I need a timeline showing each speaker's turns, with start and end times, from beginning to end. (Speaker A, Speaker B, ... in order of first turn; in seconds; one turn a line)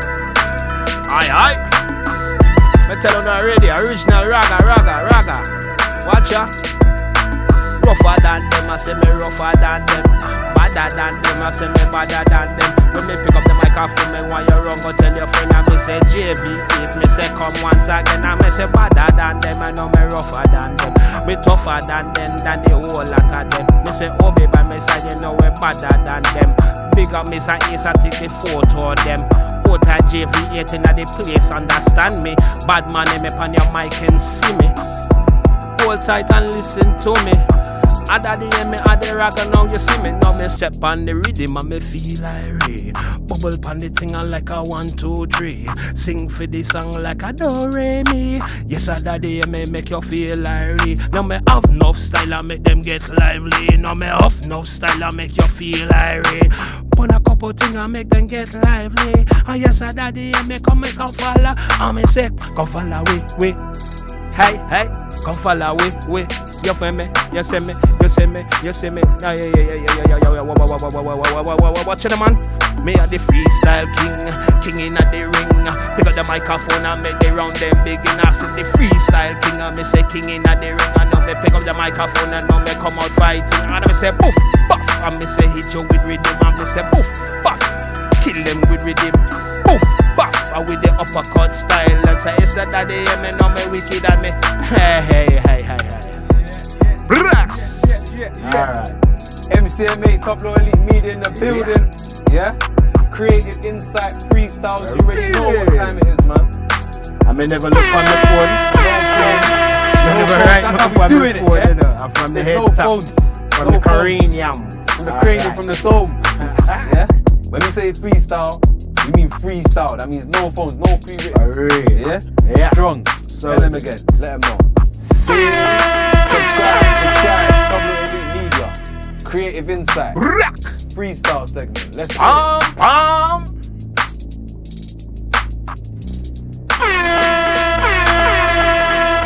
Speaker A: 1.1-1.7
Speaker A: 2.9-5.5
Speaker A: 6.0-6.5
Speaker A: 7.8-34.8
Speaker A: 35.7-37.5
Speaker A: 38.1-63.6
Speaker A: 64.3-96.2
Speaker B: 96.4-98.7
Speaker A: 97.1-99.0
Speaker B: 99.5-106.5
Speaker A: 101.3-101.8
Speaker A: 104.8-106.0
Speaker A: 107.2-115.7
Speaker B: 108.7-111.8
Speaker B: 112.3-114.2
Speaker B: 114.9-116.2
Speaker A: 116.2-117.0
Speaker B: 116.8-124.7
Speaker A: 121.3-124.0
Speaker A: 125.0-125.8
Speaker B: 125.4-130.2
Speaker A: 130.2-130.8
Speaker B: 130.9-132.5
Speaker A: 132.2-133.5